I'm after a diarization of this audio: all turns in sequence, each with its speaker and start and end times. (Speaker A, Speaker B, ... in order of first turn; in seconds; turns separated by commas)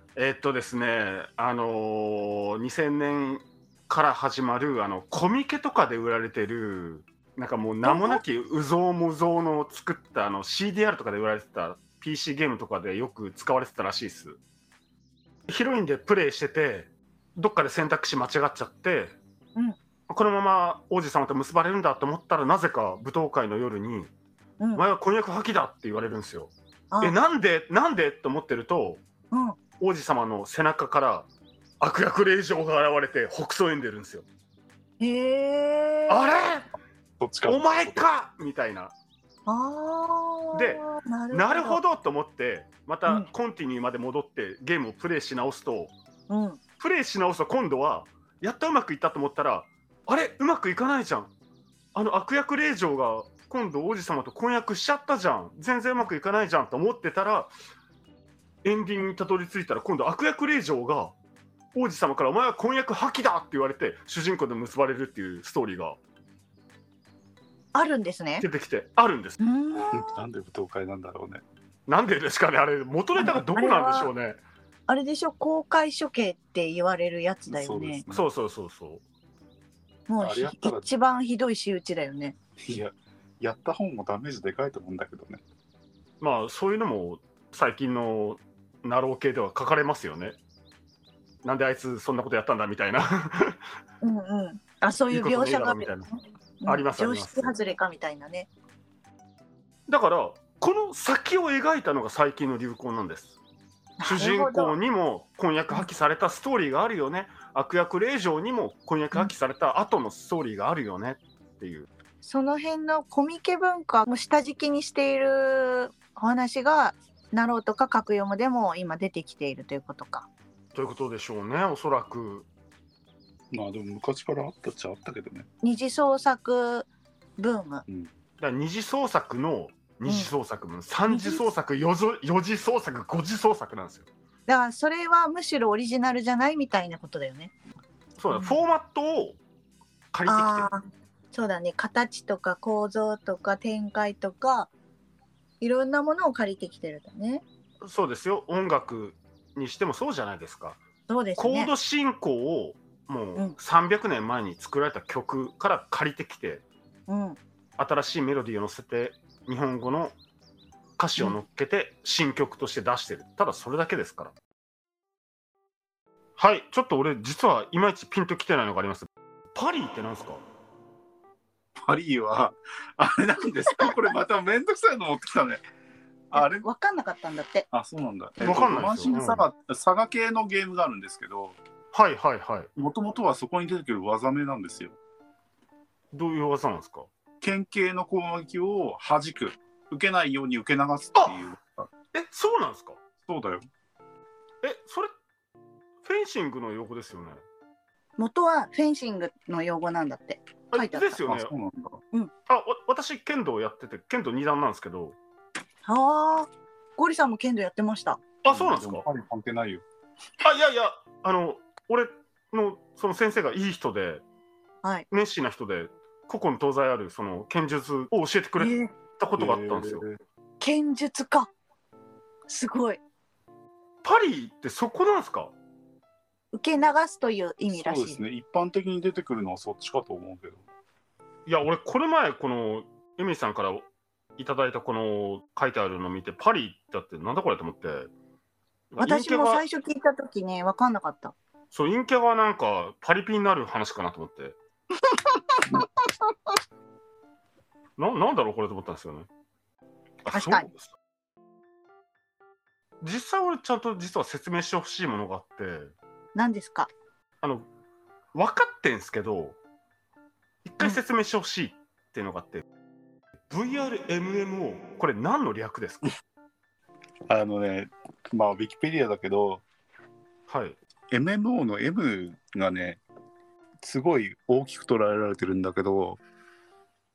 Speaker A: 0.2-14.4, Speaker B: 7.8-8.2, Speaker A: 15.5-19.2, Speaker A: 20.1-24.1, Speaker B: 24.6-24.9, Speaker A: 24.8-29.0, Speaker B: 29.3-29.6, Speaker A: 29.8-31.3, Speaker A: 31.8-34.3, Speaker B: 35.0-36.3, Speaker A: 36.1-36.7, Speaker C: 37.2-38.0, Speaker A: 37.5-38.9, Speaker B: 39.5-41.8, Speaker A: 40.5-45.9, Speaker B: 46.3-46.6, Speaker A: 46.8-51.3, Speaker A: 51.9-57.5, Speaker A: 58.6-61.1, Speaker A: 61.7-66.0, Speaker B: 67.7-68.5, Speaker A: 68.4-69.4, Speaker B: 69.4-70.1, Speaker C: 69.9-71.4, Speaker A: 71.9-74.4, Speaker B: 73.2-74.1, Speaker B: 74.9-78.0, Speaker C: 77.5-78.3, Speaker A: 78.1-79.0, Speaker B: 80.1-82.3, Speaker C: 80.2-80.9, Speaker C: 82.6-85.4, Speaker A: 86.2-90.4, Speaker A: 91.4-93.6, Speaker B: 94.0-95.9, Speaker A: 95.1-96.1, Speaker B: 96.6-98.5, Speaker A: 96.7-97.5, Speaker A: 99.9-103.4, Speaker B: 104.0-104.8, Speaker A: 104.0-111.9, Speaker B: 112.2-120.3, Speaker A: 120.7-122.5, Speaker C: 123.5-125.5, Speaker B: 125.6-127.8, Speaker A: 128.4-134.1, Speaker B: 130.1-130.3, Speaker B: 131.1-131.4, Speaker B: 134.5-137.5, Speaker A: 138.2-139.4, Speaker A: 140.1-140.7, Speaker B: 140.3-140.8, Speaker B: 141.3-144.7, Speaker B: 145.6-147.4, Speaker A: 147.8-150.8, Speaker B: 151.1-151.7, Speaker A: 151.4-156.7, Speaker B: 157.1-157.4, Speaker A: 157.8-160.2, Speaker A: 161.0-164.3, Speaker A: 166.4-170.4, Speaker C: 171.8-175.6, Speaker C: 176.3-176.7, Speaker B: 176.3-177.7, Speaker C: 177.7-181.6, Speaker A: 178.4-179.4, Speaker A: 181.9-182.7, Speaker C: 182.8-185.0, Speaker A: 186.1-187.1, Speaker C: 187.4-191.9, Speaker A: 191.2-191.4, Speaker A: 192.1-193.0, Speaker C: 193.2-193.7, Speaker A: 194.6-195.1, Speaker A: 196.0-197.4, Speaker B: 198.2-201.2, Speaker A: 200.7-201.5, Speaker C: 201.3-202.0, Speaker A: 202.5-205.2, Speaker B: 205.8-208.2, Speaker A: 208.4-209.0, Speaker C: 208.5-209.8, Speaker A: 210.4-214.2, Speaker A: 215.1-220.0, Speaker B: 218.6-218.9, Speaker C: 219.4-220.2, Speaker B: 220.6-221.5, Speaker B: 222.5-223.0, Speaker A: 224.0-225.5, Speaker B: 226.5-228.2, Speaker C: 227.7-230.6, Speaker A: 231.5-233.9, Speaker A: 234.4-238.1, Speaker A: 238.9-239.6, Speaker B: 239.0-241.3, Speaker A: 241.7-244.6, Speaker B: 245.1-246.1, Speaker A: 248.0-249.3, Speaker A: 250.2-250.9, Speaker B: 250.3-250.7, Speaker A: 253.0-255.9, Speaker B: 256.4-256.9, Speaker A: 258.3-259.6, Speaker A: 260.6-262.6, Speaker A: 263.5-266.1, Speaker C: 267.3-269.6, Speaker A: 270.5-270.8, Speaker C: 271.1-273.0, Speaker C: 273.8-276.2